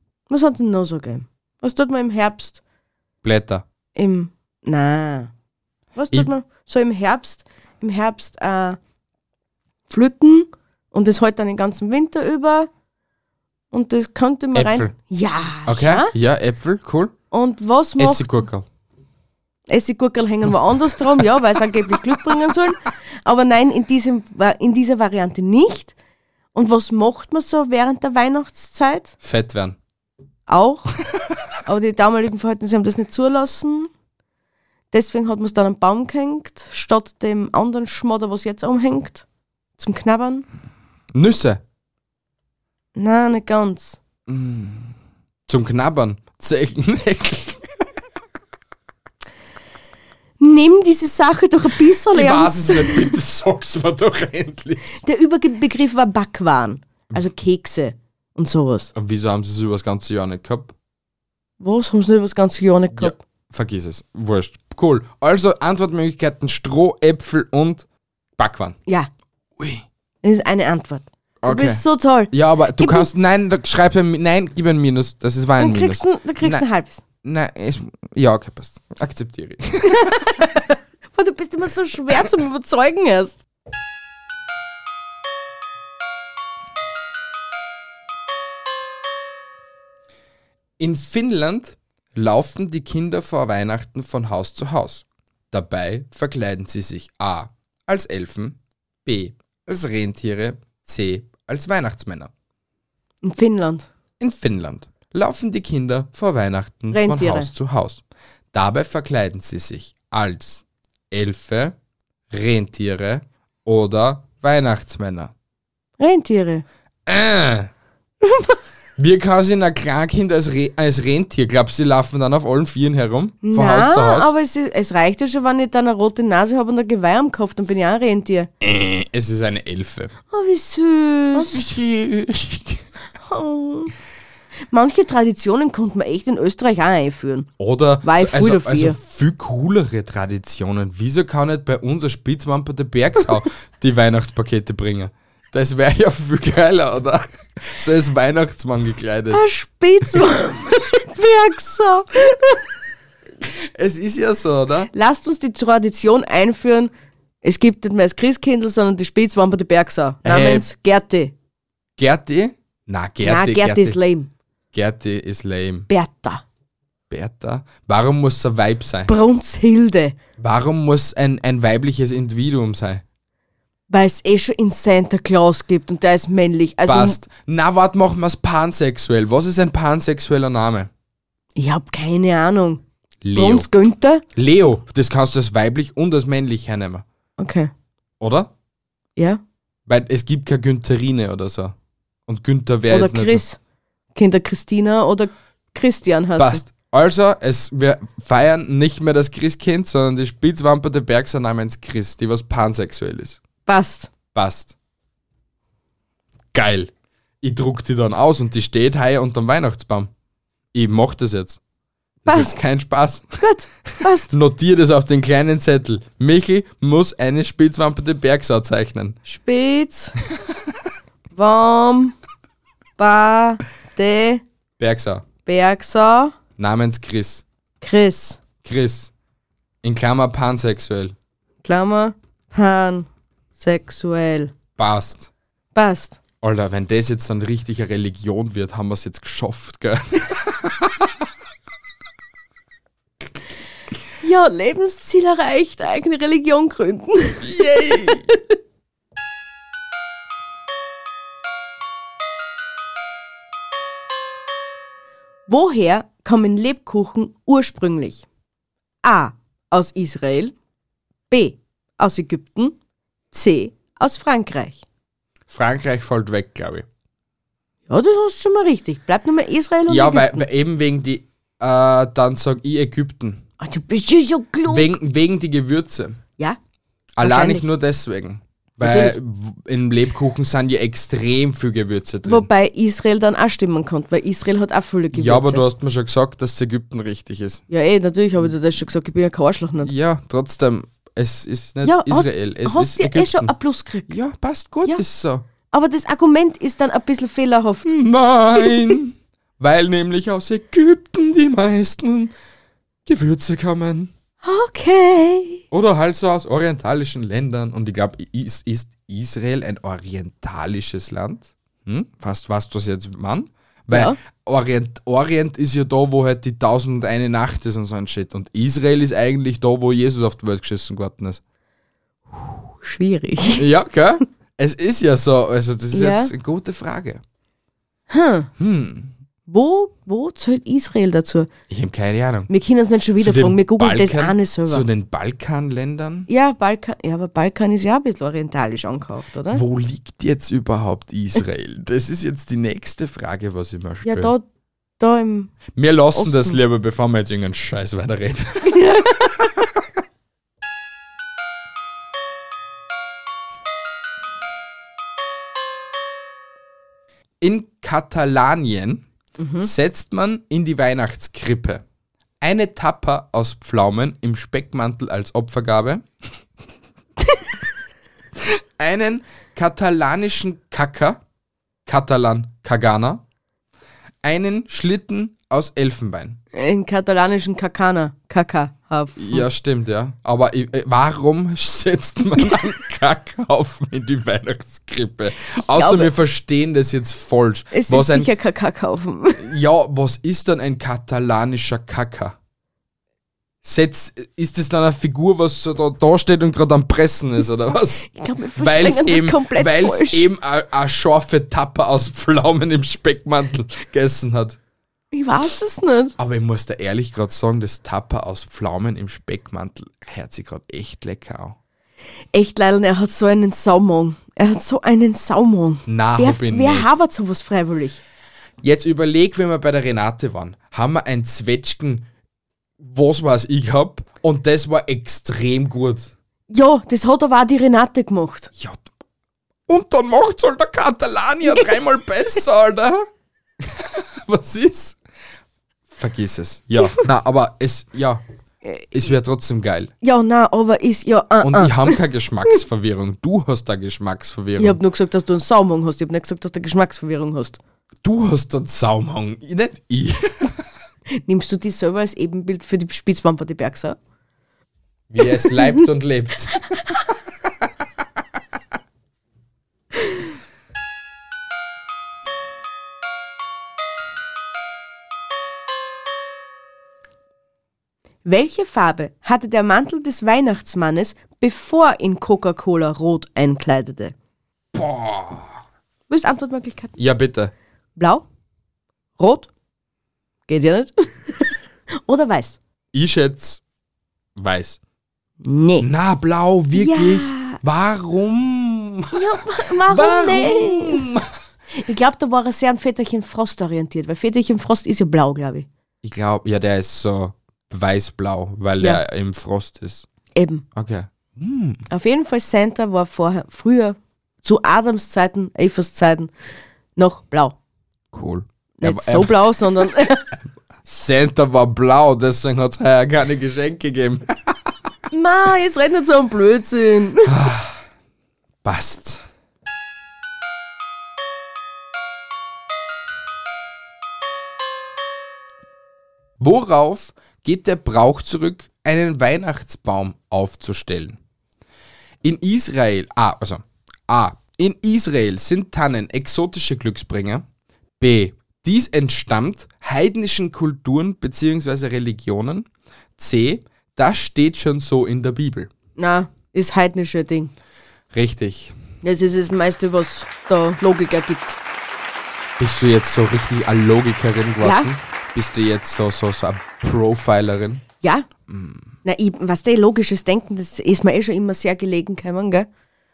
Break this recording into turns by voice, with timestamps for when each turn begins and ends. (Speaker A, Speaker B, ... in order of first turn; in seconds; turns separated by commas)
Speaker A: 0.3-2.6, Speaker B: 3.2-3.6, Speaker A: 4.0-5.3, Speaker A: 6.0-8.8, Speaker A: 9.9-12.7, Speaker A: 13.7-16.1, Speaker B: 14.5-14.9, Speaker B: 15.7-17.1, Speaker A: 17.3-18.3, Speaker B: 18.0-18.7, Speaker A: 19.7-25.9, Speaker A: 26.5-29.2, Speaker B: 29.2-29.8, Speaker A: 30.5-30.9, Speaker A: 31.6-33.9, Speaker A: 34.9-39.2, Speaker A: 39.8-40.5, Speaker B: 41.1-41.6, Speaker A: 43.0-44.0, Speaker B: 44.3-45.0, Speaker B: 45.5-47.7, Speaker A: 50.4-53.1, Speaker B: 52.1-55.0, Speaker A: 55.0-58.9, Speaker B: 59.0-60.7, Speaker A: 61.6-63.2, Speaker B: 62.9-67.9, Speaker B: 68.4-68.8, Speaker B: 69.6-69.9, Speaker A: 70.2-73.1, Speaker B: 71.4-76.7, Speaker A: 75.6-77.0, Speaker B: 77.2-80.1, Speaker A: 79.9-83.4, Speaker B: 90.8-102.3, Speaker A: 103.2-103.9, Speaker B: 104.2-111.8, Speaker A: 106.9-107.5, Speaker B: 112.3-115.3, Speaker A: 116.0-116.6, Speaker B: 117.1-117.7, Speaker B: 119.0-124.3, Speaker A: 123.4-128.5, Speaker B: 128.6-130.1, Speaker A: 130.3-131.6, Speaker B: 131.3-132.8, Speaker A: 133.2-133.9, Speaker A: 134.7-137.5, Speaker B: 137.6-149.4, Speaker A: 138.0-139.0, Speaker A: 149.3-152.6, Speaker B: 153.4-154.9, Speaker A: 154.9-156.9, Speaker A: 157.4-161.3, Speaker B: 160.2-160.7, Speaker B: 162.0-164.0, Speaker A: 163.2-164.3, Speaker B: 164.7-165.9, Speaker A: 165.9-166.4, Speaker B: 167.1-169.1, Speaker A: 169.1-170.2, Speaker B: 170.4-173.0, Speaker A: 173.9-177.2, Speaker B: 176.9-180.9, Speaker A: 181.6-182.8, Speaker B: 183.2-183.7, Speaker A: 183.3-184.2, Speaker B: 184.3-187.1, Speaker A: 187.4-187.7, Speaker B: 188.2-188.5, Speaker B: 189.9-191.8, Speaker B: 192.3-193.4, Speaker A: 192.9-193.6, Speaker A: 194.2-196.6, Speaker B: 196.4-203.4, Speaker A: 203.7-204.1, Speaker B: 204.3-204.8, Speaker B: 206.5-206.9, Speaker B: 207.4-210.1, Speaker B: 210.7-211.6, Speaker B: 212.2-213.4, Speaker A: 212.3-212.6, Speaker A: 213.4-214.3, Speaker B: 214.1-219.2, Speaker A: 219.3-220.2, Speaker A: 221.3-222.2, Speaker A: 223.0-224.4, Speaker B: 224.8-225.3, Speaker A: 225.5-226.3, Speaker B: 226.6-227.4, Speaker A: 227.8-228.4, Speaker B: 228.6-229.1, Speaker B: 229.8-231.2, Speaker A: 231.6-234.5, Speaker B: 234.8-235.3, Speaker A: 235.8-236.2, Speaker B: 236.4-241.1, Speaker A: 244.2-248.5, Speaker B: 247.4-248.3, Speaker A: 255.5-258.2, Speaker A: 259.0-260.5, Speaker A: 261.3-262.8, Speaker A: 263.3-264.8, Speaker B: 265.5-266.9, Speaker A: 267.9-270.4, Speaker B: 269.9-273.4, Speaker A: 273.6-275.0, Speaker B: 274.7-276.2, Speaker B: 277.2-282.5, Speaker A: 277.2-277.7, Speaker A: 278.8-279.2, Speaker A: 282.2-285.6, Speaker B: 285.1-287.6, Speaker A: 287.7-289.9, Speaker B: 289.8-293.5, Speaker A: 291.8-294.1, Speaker B: 294.1-295.4, Speaker A: 295.7-297.9, Speaker B: 297.9-302.3, Speaker B: 303.1-304.1, Speaker A: 304.4-305.6, Speaker B: 305.7-321.4, Speaker A: 313.9-314.2, Speaker A: 322.3-323.7, Speaker B: 323.6-327.2, Speaker A: 325.9-326.3, Speaker A: 328.1-328.5, Speaker B: 328.6-329.1, Speaker A: 329.5-331.5, Speaker B: 331.7-332.5, Speaker A: 332.5-334.9, Speaker B: 333.2-336.3, Speaker A: 336.3-339.6, Speaker B: 339.5-344.3, Speaker A: 344.1-344.4, Speaker A: 345.0-345.5, Speaker B: 345.8-349.3, Speaker A: 346.1-346.6, Speaker A: 348.6-349.1, Speaker B: 357.4-359.1, Speaker A: 359.4-359.7, Speaker B: 359.6-361.8, Speaker B: 362.4-366.1, Speaker B: 368.4-371.2, Speaker B: 371.9-373.2, Speaker B: 374.2-376.4, Speaker A: 376.5-379.5, Speaker B: 379.2-388.3, Speaker A: 385.6-386.1, Speaker A: 387.7-389.5, Speaker B: 389.4-392.4, Speaker B: 393.6-404.6, Speaker A: 398.1-400.3, Speaker A: 405.1-406.1, Speaker B: 406.2-411.6, Speaker A: 412.3-418.0, Speaker B: 415.9-417.0, Speaker B: 418.6-422.1, Speaker B: 422.8-426.1, Speaker A: 426.5-428.5, Speaker B: 428.6-428.8, Speaker B: 429.7-433.1, Speaker B: 433.6-435.0, Speaker B: 435.9-438.2, Speaker B: 438.9-439.9, Speaker A: 440.0-442.0, Speaker B: 441.4-444.8, Speaker A: 444.6-447.6, Speaker B: 448.0-450.6, Speaker A: 451.2-454.0, Speaker B: 455.1-456.7, Speaker A: 468.2-474.1, Speaker B: 474.7-475.6, Speaker A: 476.1-476.9, Speaker B: 477.0-477.5, Speaker A: 478.0-478.2, Speaker A: 479.2-479.5, Speaker A: 480.5-481.5, Speaker A: 482.1-482.6, Speaker B: 482.9-483.6, Speaker B: 484.4-484.8, Speaker A: 485.4-485.9, Speaker B: 485.8-489.2, Speaker A: 486.7-487.6, Speaker A: 489.1-491.1, Speaker B: 489.9-491.3, Speaker A: 491.8-495.7, Speaker B: 496.0-500.1, Speaker A: 500.4-500.6, Speaker B: 500.7-501.9, Speaker A: 501.9-506.3, Speaker A: 507.0-507.6, Speaker B: 508.1-509.9, Speaker A: 508.8-510.3, Speaker B: 510.9-514.6, Speaker A: 515.1-517.4, Speaker B: 517.2-517.8, Speaker B: 518.6-519.2, Speaker B: 526.4-531.2, Speaker B: 532.2-537.5, Speaker B: 538.0-545.7, Speaker A: 546.0-547.5, Speaker B: 548.1-548.8, Speaker A: 549.0-551.6, Speaker B: 552.6-557.8, Speaker A: 554.6-554.9, Speaker A: 558.0-558.3, Speaker B: 558.5-558.9, Speaker A: 559.0-562.7